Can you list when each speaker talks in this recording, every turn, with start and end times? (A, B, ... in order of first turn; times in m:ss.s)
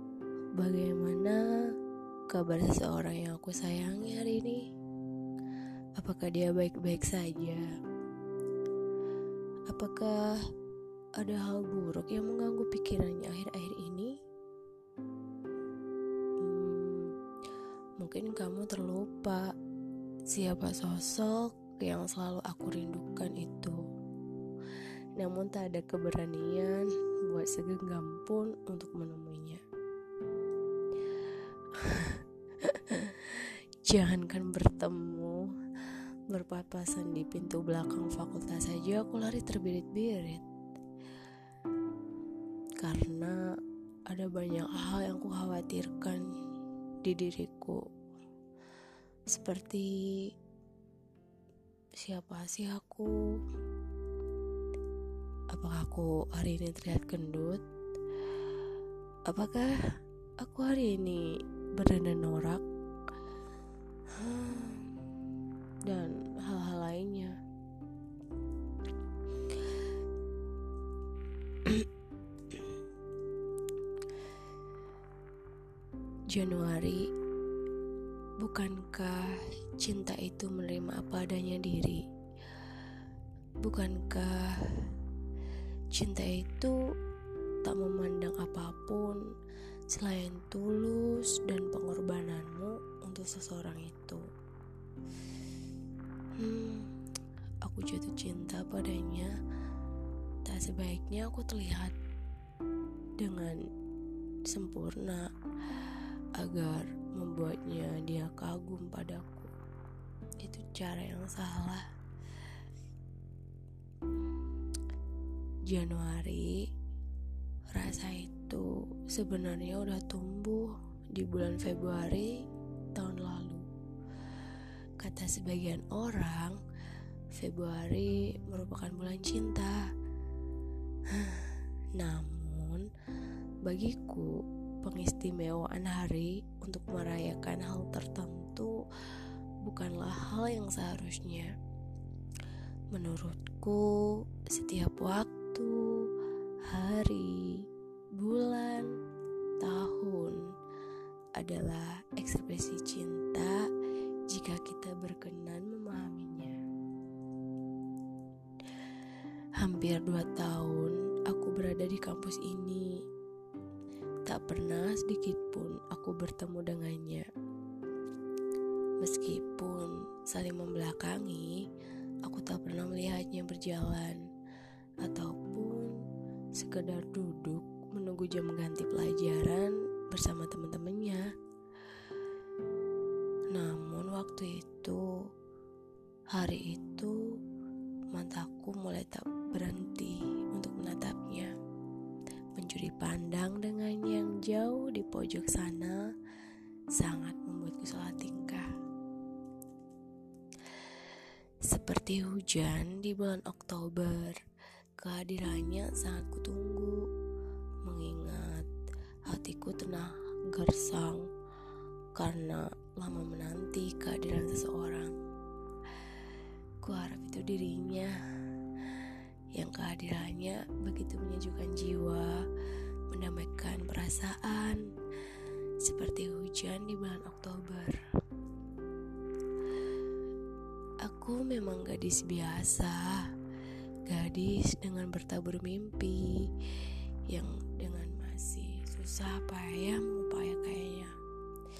0:00.6-0:01.4 A
0:02.3-0:04.6 A
0:06.0-0:07.7 A
0:09.7-0:10.1 A
0:11.2-0:14.1 A
0:16.4-0:17.1 A
0:18.0-0:19.4 A
0:20.3-0:23.8 A
0:25.2-0:29.6 A
0:31.8-0:40.4 A
0:42.8-0:43.4 A
0:44.1-0:46.2 A
0:47.0-0:47.8 A
0:49.3-0:49.9 A
0:52.0-0:53.1 A
0:55.5-0:57.6 A
0:59.3-0:59.8 A
1:00.4-1:02.6 A
1:04.1-1:05.0 A
1:05.9-1:07.4 A
1:16.3-1:17.1 A
1:18.4-1:22.0 A
1:23.6-1:24.9 A
1:25.9-1:26.8 A
1:27.6-1:29.2 A
1:29.9-1:34.2 A
1:36.4-1:36.9 A
1:37.6-1:39.3 A
1:40.4-1:42.0 A
1:43.2-1:43.6 A
1:44.5-1:49.5 A
1:50.4-1:51.8 A
1:55.7-1:56.6 A
1:57.7-2:02.3 A
2:03.0-2:03.6 A
2:05.0-2:06.6 A
2:07.4-2:09.8 A
2:11.1-2:12.9 A
2:13.7-2:14.3 A
2:14.8-2:18.8 A
2:19.6-2:21.5 A
2:22.9-2:25.8 A
2:26.6-2:27.6 A
2:28.2-2:28.9 A
2:29.6-2:30.4 A
2:31.4-2:33.7 A
2:34.3-2:36.6 A
2:39.6-2:42.9 A
2:44.3-2:47.3 A
2:49.0-2:51.6 A
2:52.2-2:54.2 A
2:55.0-2:56.0 A
2:56.6-3:01.2 A
3:03.5-3:05.0 A
3:06.3-3:07.2 A
3:08.1-3:11.5 A
3:12.6-3:16.0 A
3:17.0-3:18.7 A
3:21.6-3:24.4 A
3:25.0-3:27.0 A
3:27.8-3:28.7 A
3:29.3-3:31.3 A
3:32.2-3:35.1 A
3:36.8-3:38.1 A
3:38.9-3:42.4 A
3:43.1-3:44.8 A
3:45.8-3:48.0 A
3:51.0-3:53.0 A
3:54.1-4:01.1 A